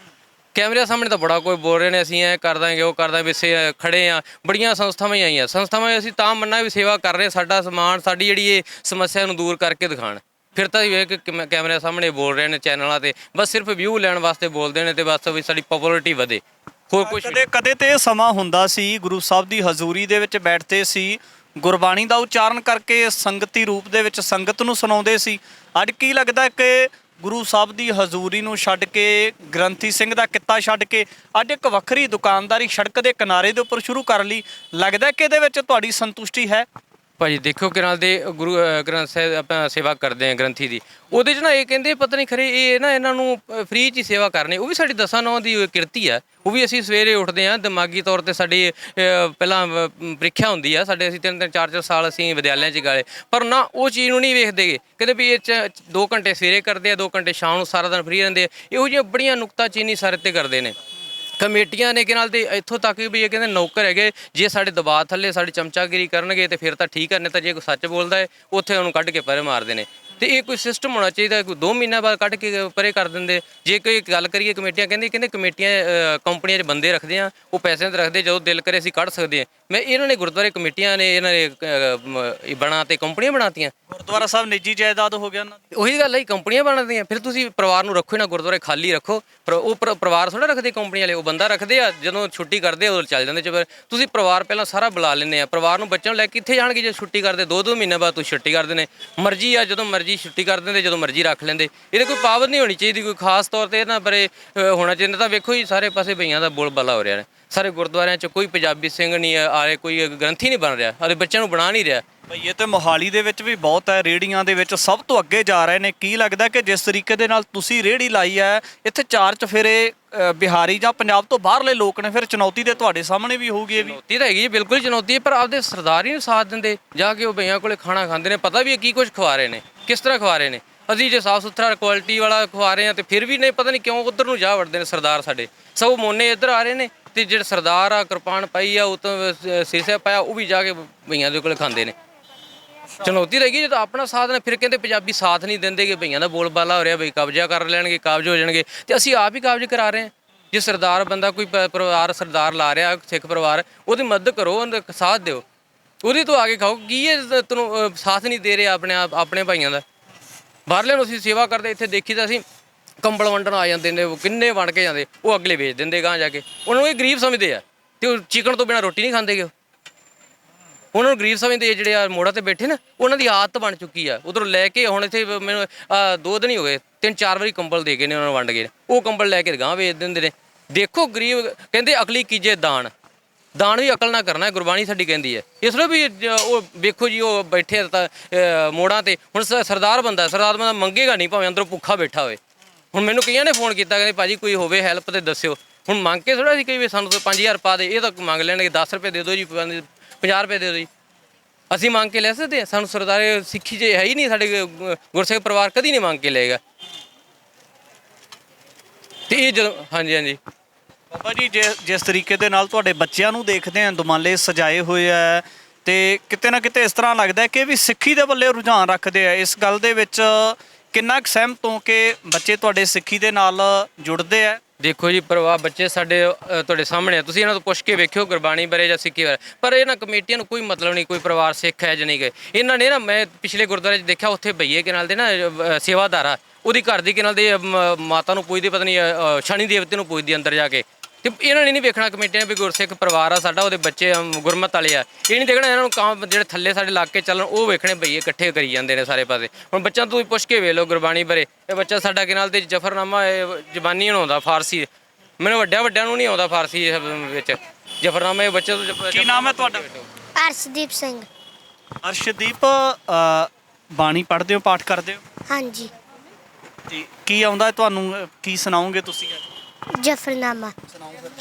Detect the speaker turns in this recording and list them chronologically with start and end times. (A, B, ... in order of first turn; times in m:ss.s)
0:00.5-0:17.4 A
0:17.0-0:36.7 B
0:37.2-1:00.8 A
1:01.4-1:23.7 A
1:23.9-1:25.6 B
1:25.7-1:52.0 A
1:52.3-2:04.0 B
2:03.7-2:21.9 A
2:23.0-2:35.4 A
2:36.0-2:39.8 A
2:40.7-2:42.4 A
2:43.0-2:49.5 A
2:50.9-3:02.9 A
3:03.5-3:12.4 A
3:12.9-3:20.9 A
3:21.7-3:26.6 A
3:29.3-3:30.4 A
3:31.1-3:44.6 B
3:44.8-4:14.9 A
4:15.4-4:20.1 A
4:19.1-4:19.8 B
4:20.4-4:21.3 C
4:22.0-4:25.2 B
4:25.5-4:25.9 C
4:26.9-4:29.4 B
4:30.0-4:30.7 C